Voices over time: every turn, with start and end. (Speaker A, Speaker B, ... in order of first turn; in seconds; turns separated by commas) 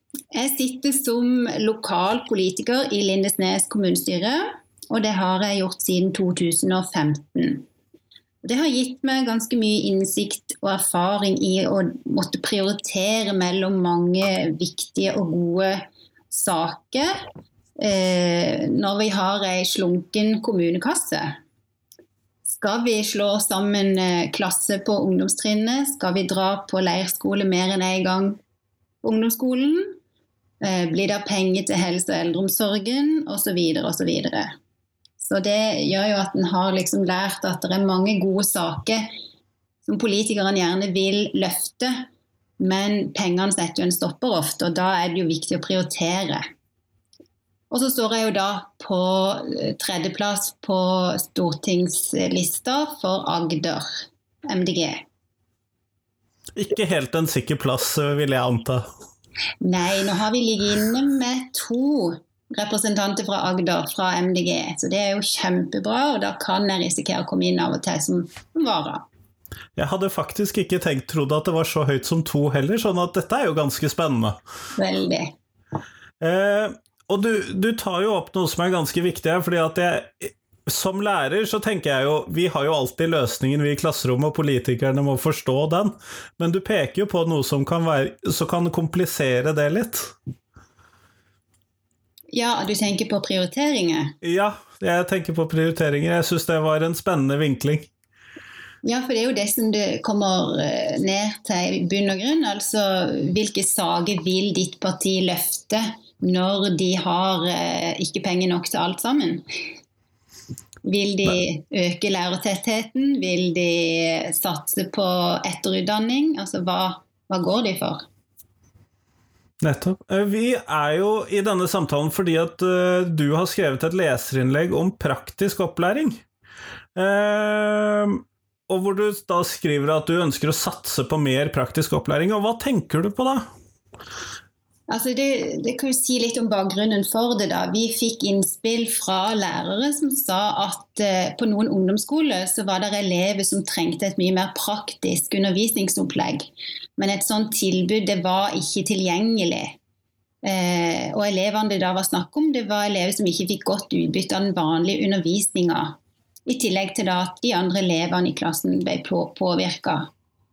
Speaker A: 0.3-7.7, Speaker A: 8.4-17.1, Speaker A: 17.8-21.4, Speaker A: 22.5-28.4, Speaker A: 29.0-29.9, Speaker A: 30.6-34.5, Speaker A: 35.2-39.1, Speaker A: 39.9-42.0, Speaker A: 42.6-46.4, Speaker A: 47.7-55.0, Speaker B: 56.5-58.9, Speaker A: 59.6-69.1, Speaker B: 69.8-74.4, Speaker A: 74.8-75.3, Speaker B: 76.2-90.1, Speaker A: 92.3-94.2, Speaker B: 94.2-97.9, Speaker A: 98.8-109.4, Speaker A: 110.8-118.1, Speaker B: 119.6-126.2, Speaker B: 127.0-133.4, Speaker A: 134.9-149.8, Speaker A: 150.4-160.1